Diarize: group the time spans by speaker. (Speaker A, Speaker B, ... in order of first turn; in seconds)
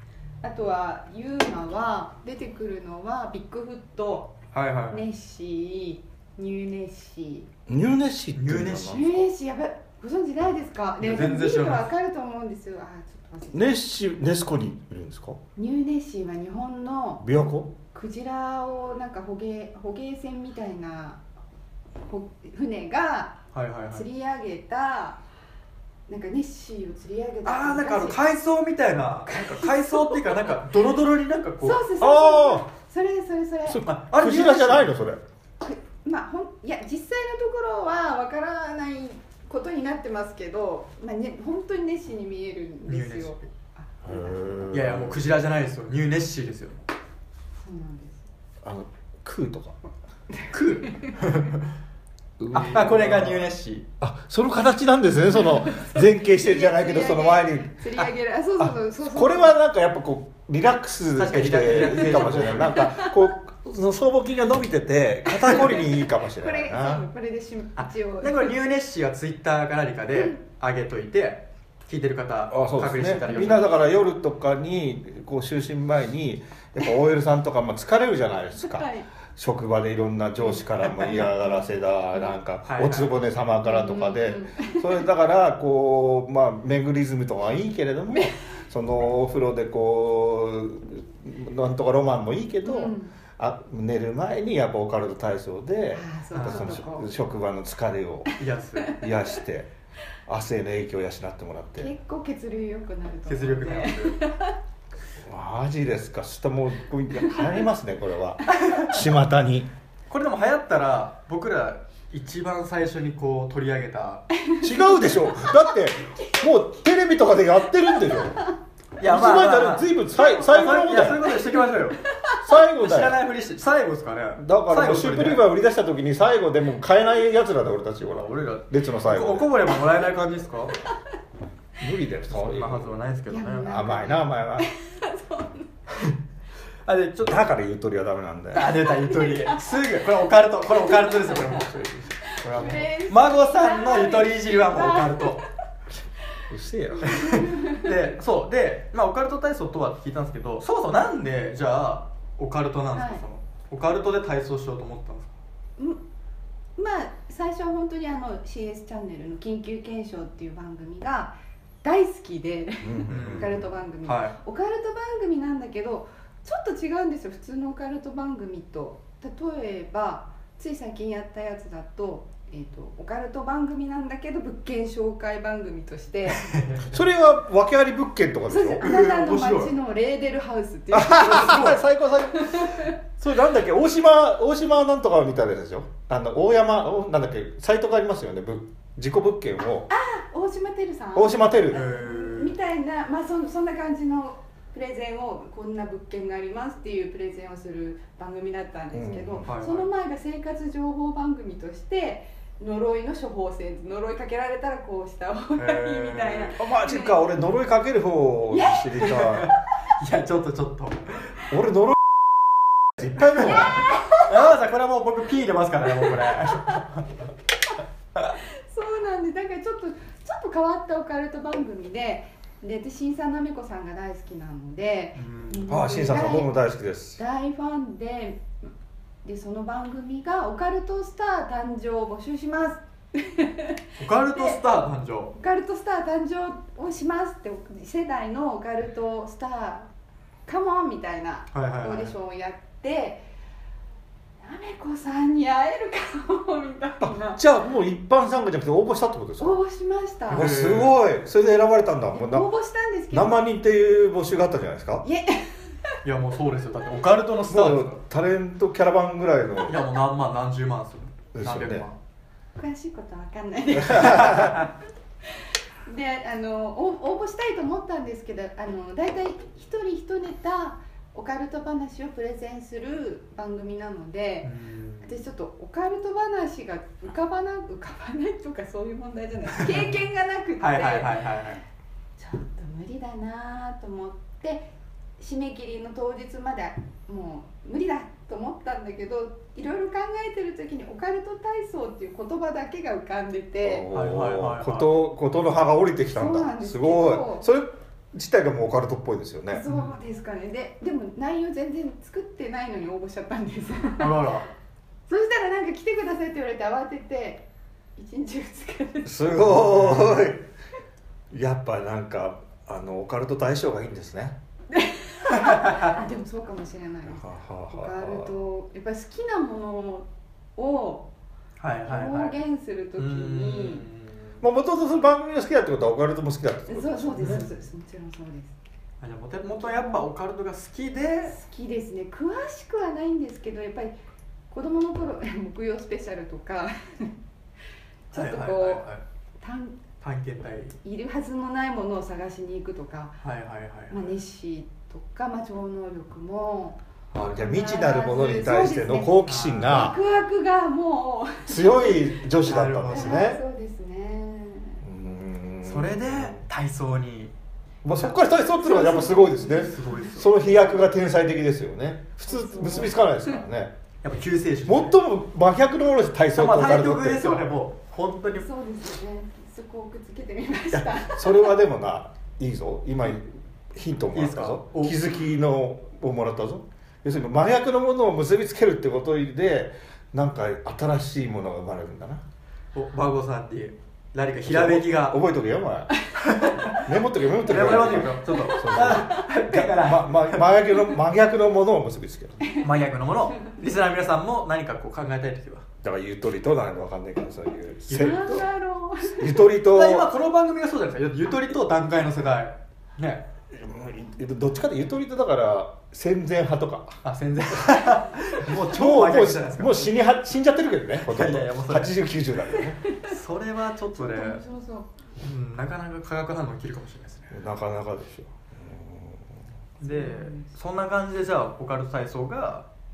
Speaker A: 0.4-4.3, 4.9-7.5, 8.9-13.7, 15.6-17.3, 17.8-21.2, 22.1-25.2, 26.1-28.2, 29.3-30.3, 31.6-33.8, 35.6-44.6, 47.6-48.2, 50.3-51.2, 55.4-59.6, 62.2-63.1, 65.4-68.5, 73.2-73.7, 78.6-79.1, 81.1-81.6, 83.6-85.0, 92.6-93.1, 95.9-97.1, 101.8-104.5, 114.4-115.7, 121.4-122.3, 133.3-135.7, 138.6-139.7, 140.9-141.4, 142.3-145.5, 147.0-147.9, 152.9-153.2, 156.8-176.5, 178.5-182.9, 189.9-207.3, 208.5-209.5, 213.4-214.3, 218.4-226.5, 227.2-228.5, 229.2-233.8, 234.3-234.6, 235.3-239.9, 240.4-243.2, 244.4-247.4, 249.4-250.5, 252.1-253.4, 255.0-255.5, 262.6-264.7, 265.8-274.5, 275.0-281.3, 282.2-293.9, 296.1-297.4, 299.5-304.3, 305.1-309.3, 314.7-321.1, 321.9-323.9, 326.7-328.5, 329.6-330.0, 331.2-333.9, 334.5-337.2, 338.1-338.9, 339.4-339.8, 340.8-343.2, 343.9-352.2, 352.9-354.8, 358.4-360.8, 362.2-363.1, 368.4-371.5, 388.9-389.2, 397.9-399.3, 412.9-413.1, 413.9-414.9, 419.9-420.5
Speaker B: 4.5-5.0, 8.3-9.2, 11.0-11.8, 23.5-24.1, 27.4-31.8, 33.8-34.9, 42.9-43.5, 44.7-46.9, 50.5-51.7, 52.5-53.9, 61.1-62.8, 67.8-73.7, 82.6-83.2, 96.3-96.8, 98.4-99.0, 103.3-104.2, 110.1-114.2, 119.0-122.0, 122.8-125.5, 128.1-130.8, 132.3-133.8, 136.8-137.5, 138.5-145.4, 147.0-155.3, 163.1-164.3, 176.3-177.0, 178.8-179.7, 181.2-181.8, 191.7-192.6, 199.4-199.9, 205.6-206.6, 209.0-211.4, 213.1-217.1, 225.2-225.7, 234.0-235.3, 241.5-242.1, 250.3-250.9, 256.0-258.0, 259.6-262.0, 263.9-264.6, 274.4-275.2, 279.5-279.9, 280.6-281.6, 293.9-294.9, 299.7-300.0, 304.0-304.5, 309.6-310.2, 315.3-315.9, 321.6-322.3, 323.0-324.4, 327.2-327.5, 329.0-331.4, 338.1-339.0, 340.0-340.8, 343.2-344.0, 349.2-349.9, 352.4-353.2, 355.6-357.3, 359.5-360.3, 364.0-365.0, 366.3-368.5, 374.1-375.0, 382.7-385.2, 386.2-386.9, 387.4-390.4, 392.6-395.6, 397.9-398.3, 399.6-403.2, 407.0-409.9, 411.1-412.0, 413.0-414.4, 415.2-417.3, 419.8-422.7
Speaker C: 7.7-9.1, 13.5-15.4, 17.2-17.7, 32.0-32.7, 33.6-35.2, 44.0-45.2, 48.6-49.8, 52.4-53.5, 54.0-57.8, 58.6-67.0, 72.5-98.3, 98.9-99.7, 100.2-101.9, 105.2-109.7, 114.6-118.5, 119.0-121.4, 122.4-123.2, 124.3-129.5, 131.8-132.9, 133.7-134.7, 137.2-138.7, 146.5-147.3, 162.8-163.7, 176.9-178.9, 180.9-189.9, 191.1-191.8, 198.9-199.5, 206.6-209.5, 211.5-213.8, 225.7-227.2, 247.0-249.6, 250.3-252.5, 253.1-255.0, 257.5-259.8, 261.3-261.8, 263.8-264.6, 293.6-299.7, 309.0-310.5, 311.3-314.4, 317.1-318.3, 324.4-327.5, 347.1-350.0, 351.5-353.4, 354.8-356.4, 357.8-363.8, 364.6-367.4, 370.7-382.2, 384.4-385.9, 386.8-392.5, 395.8-398.5, 399.0-400.1, 403.5-407.0, 408.5-412.8, 417.3-419.4